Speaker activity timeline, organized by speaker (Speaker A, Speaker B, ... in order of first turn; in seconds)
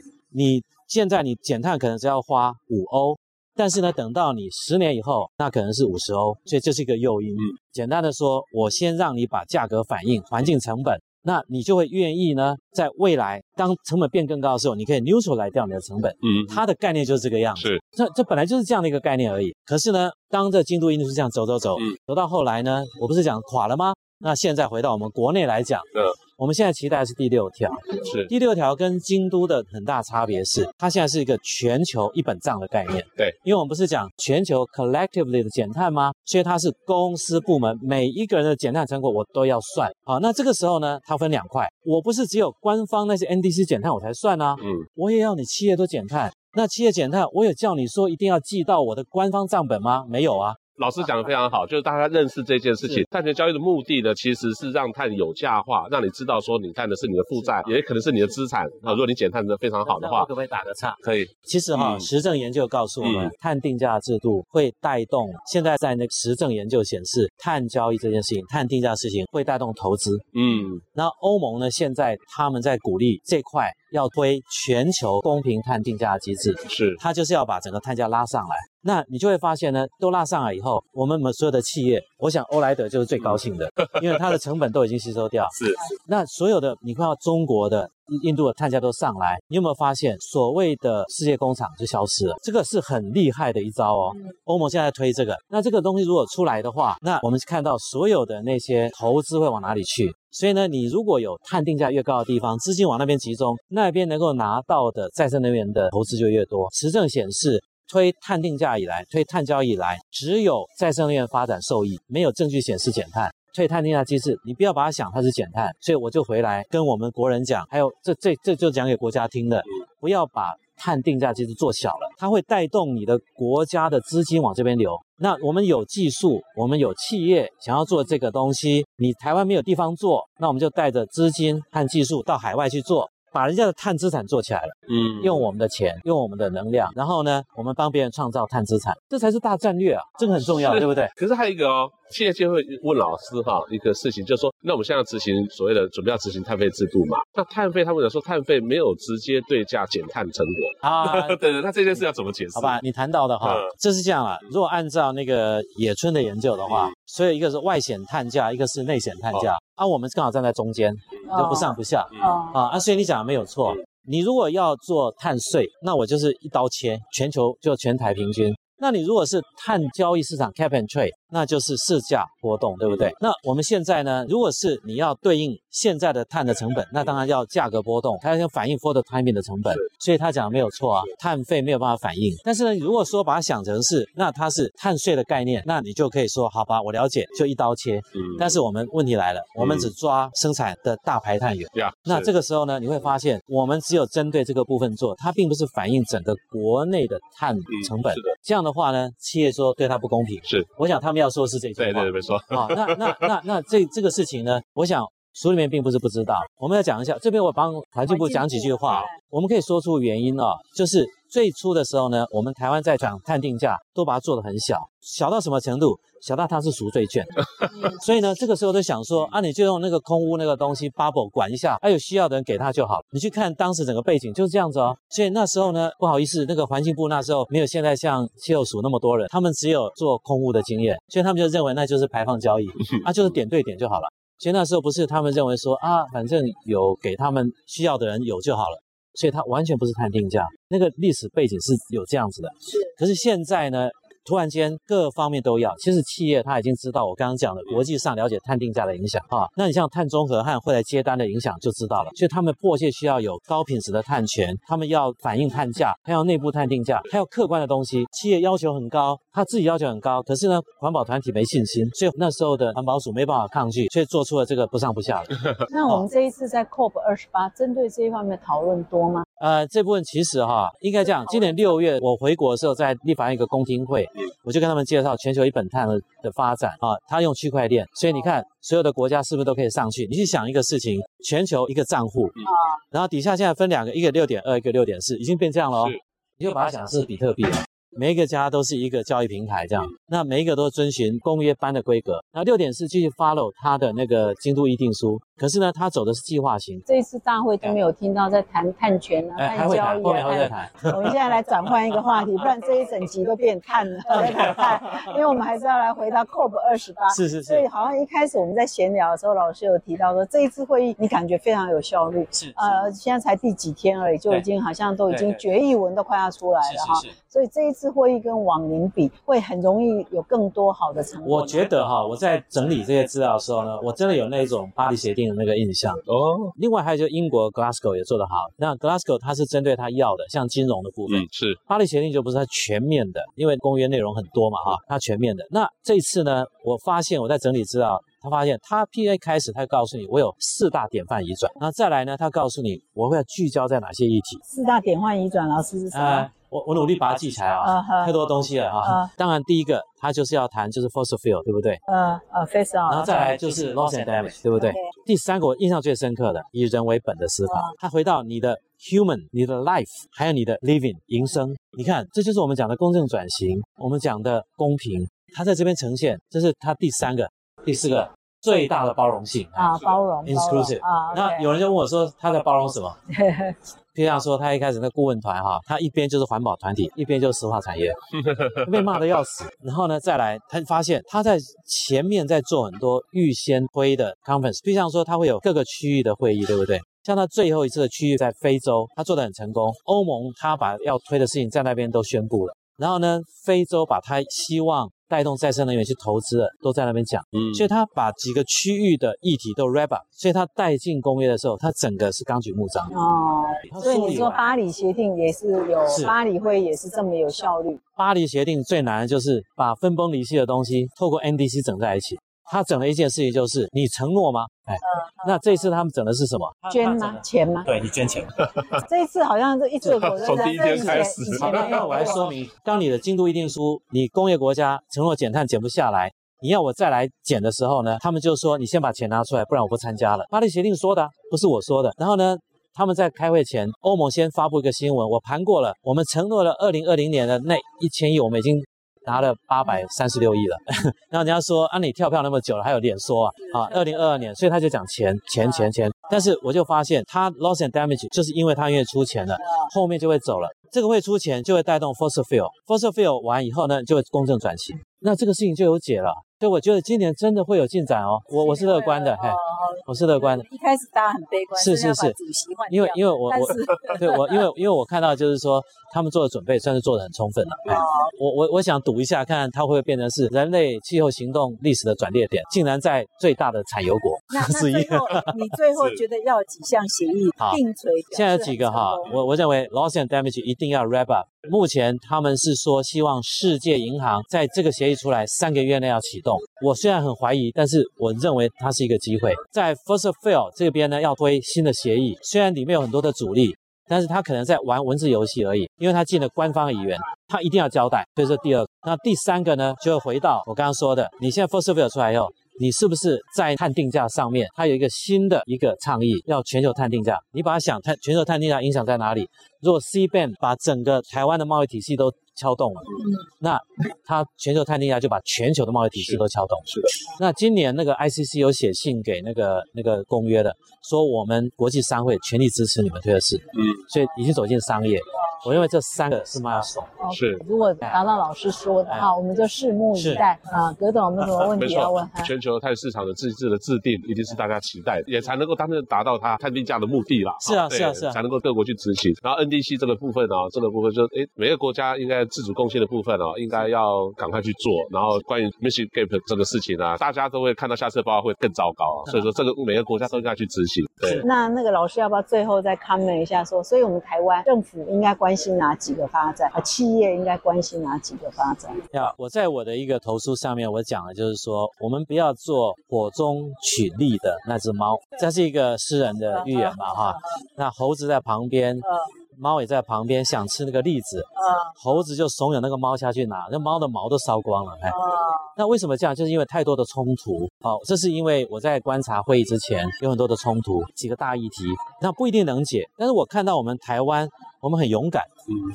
Speaker A: 0.3-50.6, 57.4-57.7, 59.9-70.2, 70.8-141.1, 150.8-151.4, 152.6-265.3, 269.4-282.4, 282.9-296.8, 299.4-301.2, 304.1-305.2, 307.1-307.6, 312.3-312.9, 315.1-315.4, 316.6-317.1, 321.2-326.0, 326.6-344.4, 345.9-351.8, 352.9-373.0, 373.9-378.0, 378.6-402.9, 403.6-404.4, 405.9-406.1, 407.9-418.3, 419.8-460.4, 461.6-462.2, 462.7-475.4, 477.4-526.9, 529.9-530.2, 537.4-538.2, 549.1-549.4, 558.9-575.0, 575.5-585.3
Speaker B: 16.2-16.6, 28.0-28.3, 50.8-60.3, 61.0-62.1, 63.0-63.3, 70.3-70.8, 76.7-77.0, 85.5-85.8, 134.9-135.4, 140.4-152.8, 153.4-153.7, 188.1-188.5, 189.6-189.9, 191.7-192.3, 197.7-198.3, 201.8-203.2, 326.1-326.5, 331.1-331.6, 378.2-378.9, 420.0-421.8, 516.0-517.0, 527.1-527.4, 531.5-551.2
Speaker C: 161.3-162.6, 208.1-209.1, 265.7-269.2, 296.9-321.6, 344.4-346.3, 347.6-348.1, 348.8-349.1, 351.9-353.4, 357.5-357.7, 369.6-371.5, 373.1-373.6, 402.9-407.8, 416.7-417.7, 418.8-422.3, 449.4-449.7, 458.4-464.4, 467.7-468.1, 474.3-479.2, 527.0-532.3, 551.2-558.8, 566.3-567.2, 568.8-569.1, 571.4-571.7, 574.9-575.5